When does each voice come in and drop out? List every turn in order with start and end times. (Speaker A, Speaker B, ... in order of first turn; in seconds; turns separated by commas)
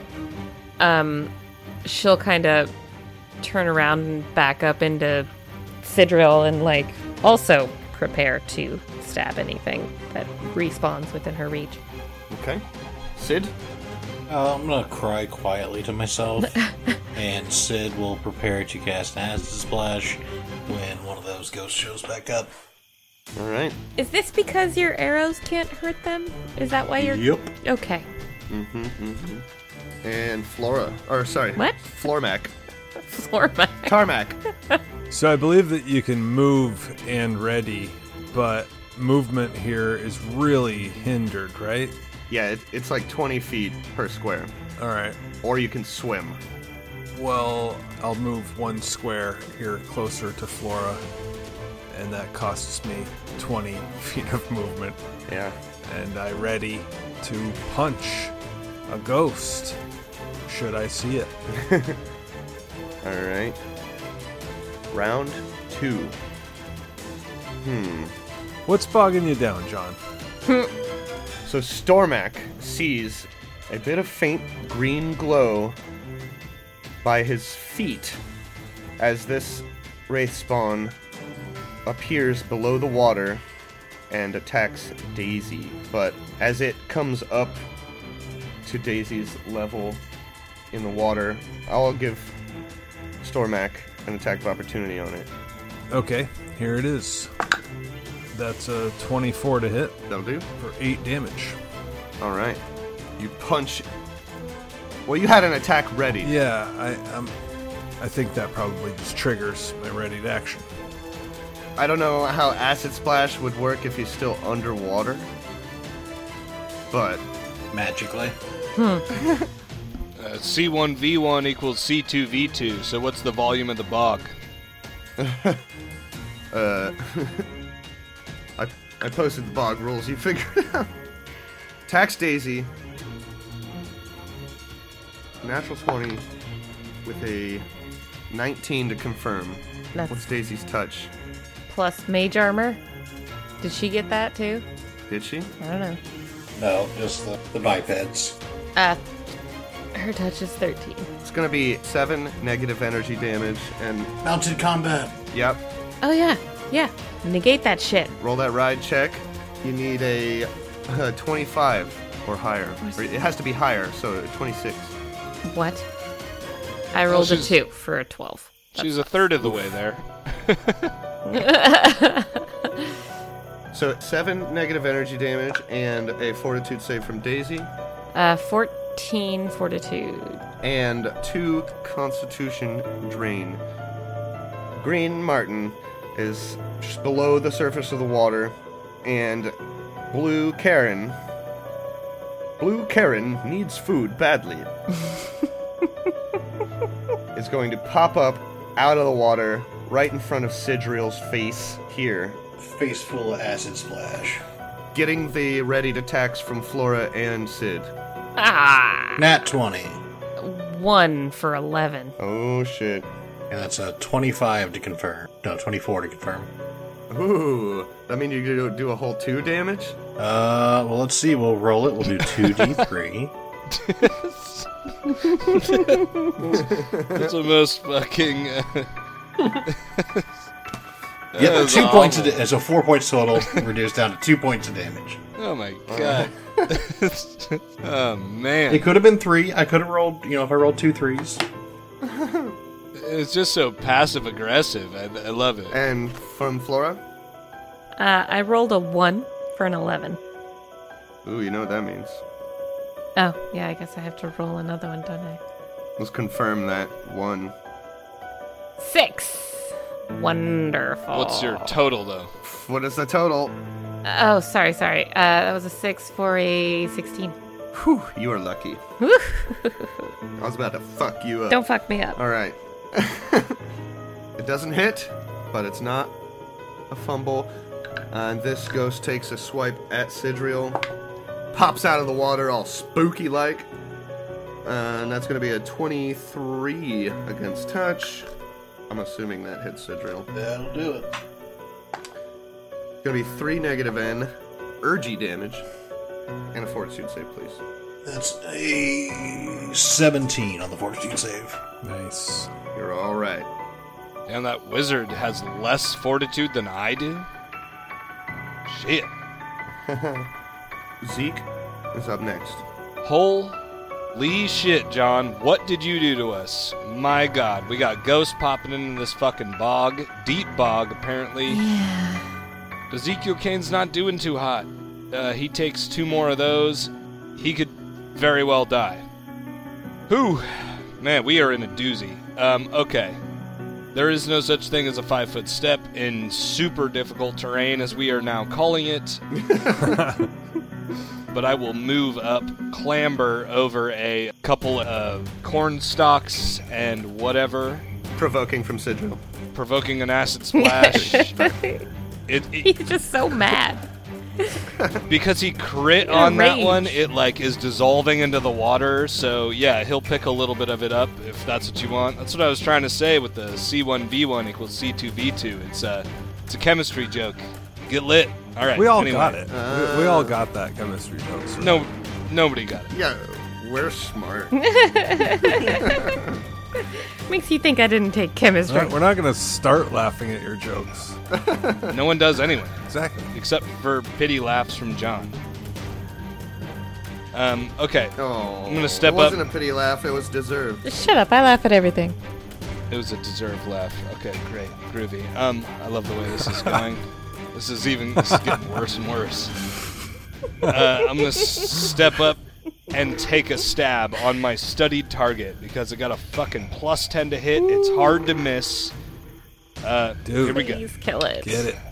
Speaker A: 0.8-1.3, Speaker A: 1.9-2.7, Speaker A: 3.4-5.3, Speaker A: 5.8-11.8, Speaker B: 12.3-12.6, Speaker B: 13.2-13.5, Speaker C: 14.3-16.6, Speaker A: 16.6-17.0, Speaker C: 17.1-22.5, Speaker B: 23.4-23.8, Speaker A: 24.0-28.1, Speaker C: 27.0-27.5, Speaker B: 28.5-29.4, Speaker B: 30.0-32.5, Speaker A: 31.6-31.9, Speaker A: 33.1-34.0, Speaker B: 33.9-34.4, Speaker D: 35.1-42.0, Speaker B: 42.3-44.5, Speaker D: 44.8-45.2, Speaker B: 45.4-46.4, Speaker D: 47.1-51.0, Speaker D: 51.9-55.0, Speaker B: 55.3-55.5, Speaker D: 55.9-58.3, Speaker D: 58.9-59.8, Speaker D: 60.5-61.3, Speaker B: 61.5-62.0, Speaker B: 63.0-63.6, Speaker B: 64.9-66.2, Speaker B: 67.6-68.1, Speaker D: 68.7-70.0, Speaker A: 70.5-70.7, Speaker B: 71.5-75.8, Speaker B: 77.0-78.2, Speaker B: 79.0-81.0, Speaker B: 81.9-83.4, Speaker B: 84.1-87.6, Speaker B: 88.6-90.0, Speaker B: 90.7-92.3, Speaker B: 93.2-95.3, Speaker D: 95.9-97.3, Speaker D: 98.3-100.0, Speaker B: 100.1-100.5, Speaker D: 100.6-101.6, Speaker B: 102.2-102.6, Speaker B: 103.2-103.9, Speaker B: 105.1-106.3, Speaker D: 106.2-107.3, Speaker D: 108.0-110.7, Speaker B: 111.8-115.3, Speaker B: 116.9-117.2, Speaker C: 117.7-118.4, Speaker A: 118.8-119.0, Speaker B: 119.1-119.5, Speaker E: 120.2-124.3, Speaker B: 125.2-125.6, Speaker B: 126.5-127.5, Speaker B: 128.6-130.9, Speaker B: 131.9-132.7, Speaker B: 135.4-136.2, Speaker B: 137.1-137.7, Speaker B: 138.3-141.1, Speaker A: 141.7-142.8, Speaker A: 143.6-144.7, Speaker B: 145.1-145.5, Speaker A: 145.6-146.0, Speaker C: 146.6-148.4, Speaker A: 148.8-149.0, Speaker A: 149.9-151.1, Speaker B: 151.2-154.1, Speaker C: 154.2-155.1, Speaker B: 155.3-155.6, Speaker A: 156.0-158.2, Speaker B: 158.2-164.9, Speaker A: 165.5-165.9, Speaker A: 166.9-169.0, Speaker E: 167.1-167.6, Speaker E: 168.8-170.9, Speaker A: 171.3-172.9, Speaker B: 173.7-177.7, Speaker A: 178.1-180.4, Speaker B: 180.6-183.6, Speaker B: 184.8-189.5, Speaker B: 190.1-191.2, Speaker B: 192.6-194.7, Speaker B: 197.3-202.4, Speaker C: 202.6-204.4, Speaker B: 204.9-207.9, Speaker A: 208.4-209.2, Speaker C: 209.2-210.0, Speaker A: 210.4-212.2, Speaker B: 212.2-213.1, Speaker C: 213.5-216.5, Speaker B: 217.1-220.0, Speaker C: 220.2-223.3, Speaker E: 223.7-228.9, Speaker B: 226.4-227.3, Speaker E: 229.6-230.3, Speaker E: 231.3-232.4, Speaker C: 231.4-235.2, Speaker E: 235.4-238.9, Speaker B: 235.9-236.7, Speaker C: 238.7-241.4, Speaker B: 242.0-242.6, Speaker E: 242.9-245.8, Speaker B: 245.7-247.0, Speaker A: 248.0-250.2, Speaker B: 251.2-252.2, Speaker A: 253.2-255.4, Speaker B: 256.0-257.5, Speaker A: 258.8-261.8, Speaker E: 261.1-262.3, Speaker B: 262.4-263.6, Speaker A: 264.1-267.4, Speaker B: 267.7-268.8, Speaker A: 269.0-270.1, Speaker B: 270.4-271.6, Speaker A: 271.5-272.2, Speaker B: 272.1-273.6, Speaker B: 274.4-276.1, Speaker B: 276.9-277.5, Speaker B: 278.1-280.8, Speaker B: 281.5-283.7, Speaker B: 284.6-288.3, Speaker B: 288.9-290.3, Speaker C: 290.3-291.1, Speaker B: 293.0-295.6, Speaker B: 296.5-297.6, Speaker C: 298.1-301.6, Speaker D: 301.8-302.5, Speaker B: 302.8-303.5, Speaker E: 304.3-307.3, Speaker E: 308.7-309.1, Speaker B: 309.9-310.3, Speaker B: 311.0-312.6, Speaker E: 313.0-313.6, Speaker E: 314.1-321.6, Speaker A: 321.5-322.3, Speaker E: 322.9-329.1, Speaker E: 330.1-333.2, Speaker E: 333.9-339.2, Speaker B: 339.3-340.1, Speaker D: 339.8-340.3, Speaker E: 341.3-347.9, Speaker B: 348.2-349.2, Speaker E: 349.5-351.4, Speaker A: 350.6-351.9, Speaker B: 351.0-351.5, Speaker E: 352.3-352.7, Speaker A: 352.6-353.9, Speaker A: 354.4-354.6, Speaker B: 354.8-355.0, Speaker E: 355.1-369.4, Speaker A: 356.0-357.0, Speaker D: 368.8-371.9, Speaker B: 369.5-370.4, Speaker E: 371.6-372.9, Speaker B: 372.9-374.6, Speaker A: 374.5-376.1, Speaker B: 375.6-376.4, Speaker A: 376.8-379.0, Speaker D: 378.7-381.2, Speaker B: 381.3-382.0, Speaker E: 381.9-385.4, Speaker D: 382.9-383.3, Speaker E: 387.3-389.4, Speaker B: 388.2-390.9, Speaker A: 390.8-392.2, Speaker E: 392.9-399.6, Speaker D: 398.2-398.6, Speaker E: 400.6-408.9, Speaker E: 409.8-410.8, Speaker D: 410.2-410.6, Speaker A: 410.5-411.7, Speaker D: 411.4-411.8